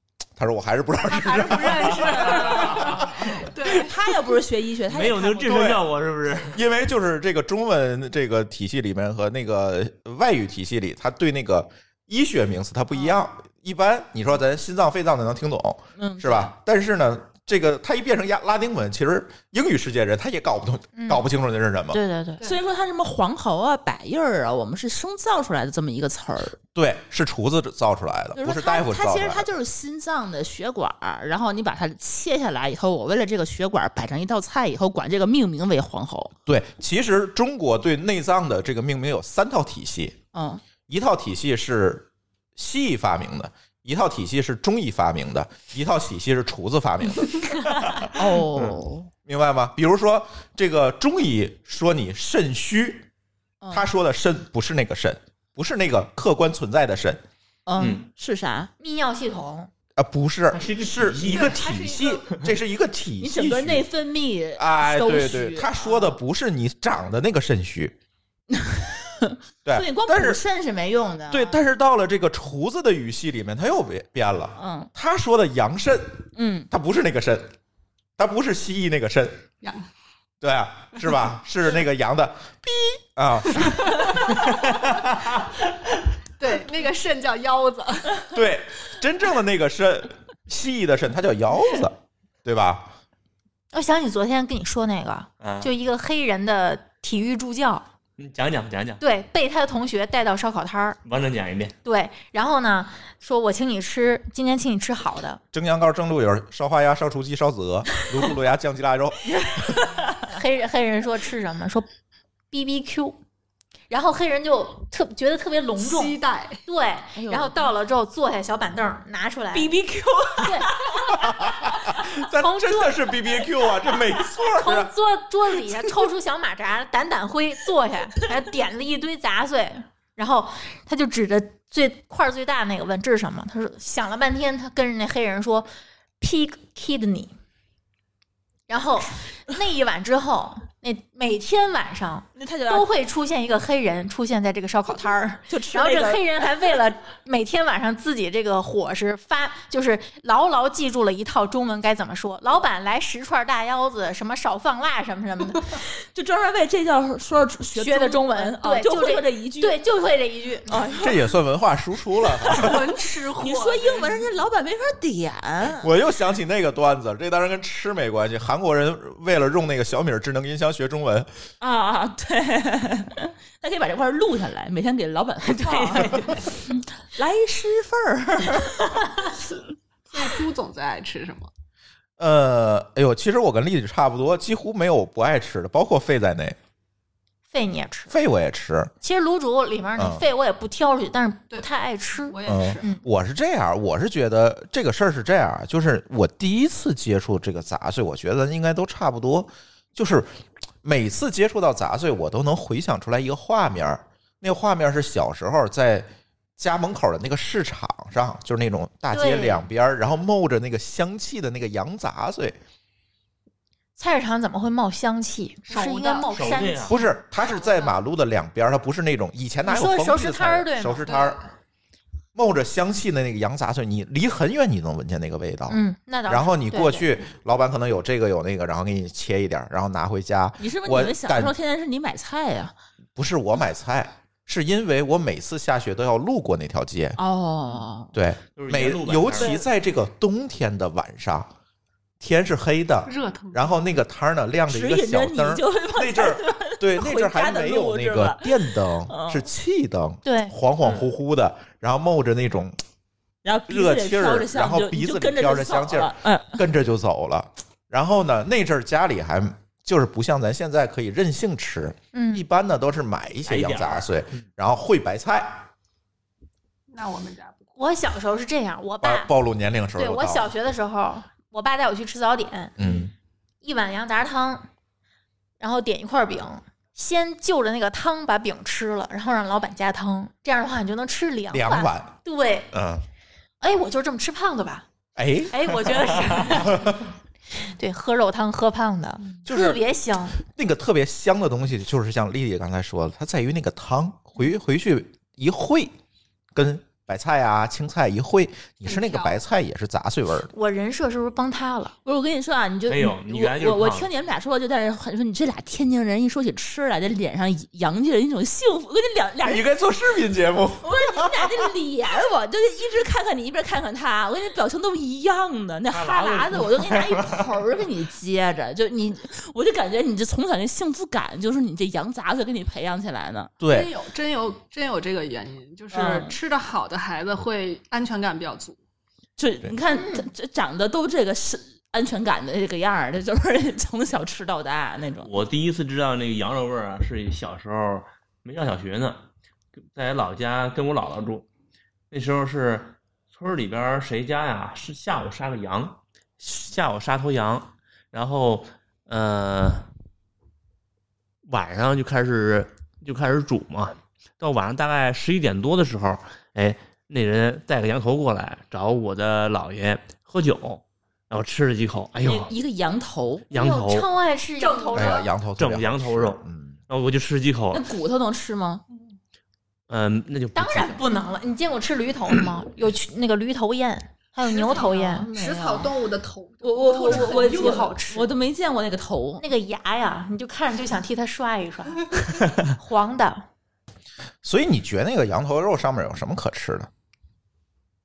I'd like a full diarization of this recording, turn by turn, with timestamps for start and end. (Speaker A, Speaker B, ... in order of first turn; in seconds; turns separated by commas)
Speaker A: 0.4-3.4, Speaker B: 1.1-4.1, Speaker C: 2.0-5.7, Speaker D: 4.9-6.6, Speaker A: 5.5-5.8, Speaker A: 6.5-22.0, Speaker C: 16.0-16.5, Speaker E: 20.9-21.2, Speaker E: 21.9-22.4, Speaker C: 22.4-26.6, Speaker A: 26.7-29.5, Speaker C: 28.4-36.3, Speaker A: 36.5-40.2, Speaker C: 40.3-40.6, Speaker A: 40.9-48.1, Speaker C: 48.0-49.1, Speaker A: 49.2-53.1, Speaker C: 53.6-53.9, Speaker A: 53.7-57.2, Speaker C: 57.6-58.7, Speaker D: 57.8-58.1, Speaker E: 58.8-59.7, Speaker A: 60.0-63.8, Speaker D: 60.5-62.5, Speaker B: 61.2-62.3, Speaker C: 63.2-66.2, Speaker A: 64.6-67.9, Speaker C: 68.5-71.6, Speaker A: 69.6-70.4, Speaker A: 71.3-77.5, Speaker C: 74.5-74.9, Speaker C: 76.3-76.7, Speaker A: 78.2-79.5, Speaker B: 79.6-79.9, Speaker A: 80.4-84.2, Speaker B: 83.6-84.8, Speaker B: 86.4-88.3, Speaker A: 88.3-92.9, Speaker E: 93.7-97.9, Speaker D: 95.4-95.7, Speaker D: 98.2-99.0, Speaker E: 99.0-101.0, Speaker D: 101.0-101.7, Speaker E: 101.8-105.4, Speaker A: 105.5-109.8, Speaker E: 110.1-111.8, Speaker E: 112.5-113.2, Speaker E: 113.9-119.7, Speaker B: 115.8-116.6, Speaker C: 117.1-117.7, Speaker C: 119.5-121.5, Speaker E: 120.3-120.7, Speaker A: 121.1-124.9, Speaker E: 121.7-123.6, Speaker E: 124.3-135.7, Speaker E: 136.2-137.3, Speaker E: 138.7-155.9, Speaker C: 142.3-142.9, Speaker C: 145.5-146.2, Speaker C: 156.1-159.8, Speaker E: 157.7-160.8, Speaker C: 160.7-161.3, Speaker A: 161.0-162.9, Speaker C: 162.4-162.8, Speaker B: 162.5-164.2, Speaker C: 163.3-165.9, Speaker A: 165.8-171.3, Speaker C: 171.6-179.1, Speaker B: 180.1-181.5, Speaker A: 182.2-186.6, Speaker E: 187.5-188.1, Speaker A: 188.1-188.9, Speaker E: 189.0-193.0, Speaker A: 190.0-190.2, Speaker B: 192.2-193.0, Speaker A: 192.4-212.6, Speaker E: 209.1-209.6, Speaker E: 214.0-217.0, Speaker B: 215.7-216.3, Speaker D: 216.3-217.0, Speaker A: 216.9-221.4, Speaker B: 217.5-217.9, Speaker E: 219.7-221.4, Speaker A: 222.3-231.5, Speaker E: 225.7-227.1, Speaker C: 230.6-232.7, Speaker A: 233.2-237.2, Speaker C: 237.2-238.1, Speaker A: 238.1-241.5, Speaker D: 238.6-239.6, Speaker C: 239.4-239.6, Speaker A: 242.2-252.8, Speaker B: 243.1-243.8, Speaker C: 244.7-249.5, Speaker E: 250.2-250.5, Speaker D: 250.8-251.1, Speaker C: 253.4-256.6, Speaker A: 253.7-265.7, Speaker E: 262.1-262.4, Speaker D: 263.5-264.4, Speaker B: 266.9-267.8, Speaker E: 267.8-269.3, Speaker A: 269.0-270.5, Speaker E: 270.0-272.7, Speaker A: 272.8-273.1, Speaker E: 273.6-274.7, Speaker E: 275.6-282.7, Speaker A: 281.5-282.2, Speaker A: 282.7-283.0, Speaker E: 283.6-284.8, Speaker A: 285.1-287.0, Speaker E: 285.5-287.0, Speaker E: 287.6-290.4, Speaker A: 289.4-289.8, Speaker A: 290.4-295.9, Speaker A: 296.5-300.5, Speaker B: 298.9-299.4, Speaker E: 300.5-301.9, Speaker C: 302.0-309.7, Speaker D: 302.9-304.1, Speaker A: 309.4-311.7, Speaker C: 310.8-323.5, Speaker D: 315.9-317.5, Speaker A: 323.6-323.9, Speaker B: 323.6-328.8, Speaker C: 325.9-326.3, Speaker C: 329.4-335.3, Speaker E: 329.9-330.3, Speaker D: 335.2-339.2, Speaker D: 339.9-341.4, Speaker D: 342.1-349.9, Speaker D: 351.4-362.5, Speaker C: 362.2-363.5, Speaker D: 363.5-364.1, Speaker E: 363.5-365.2, Speaker B: 364.6-365.3, Speaker A: 364.9-366.8, Speaker D: 365.6-367.8, Speaker C: 367.7-368.8, Speaker D: 369.9-371.0, Speaker E: 370.5-375.3, Speaker B: 374.4-377.9, Speaker C: 374.6-375.9, Speaker C: 376.6-379.4, Speaker E: 376.9-378.3, Speaker E: 379.4-383.5, Speaker A: 384.4-386.9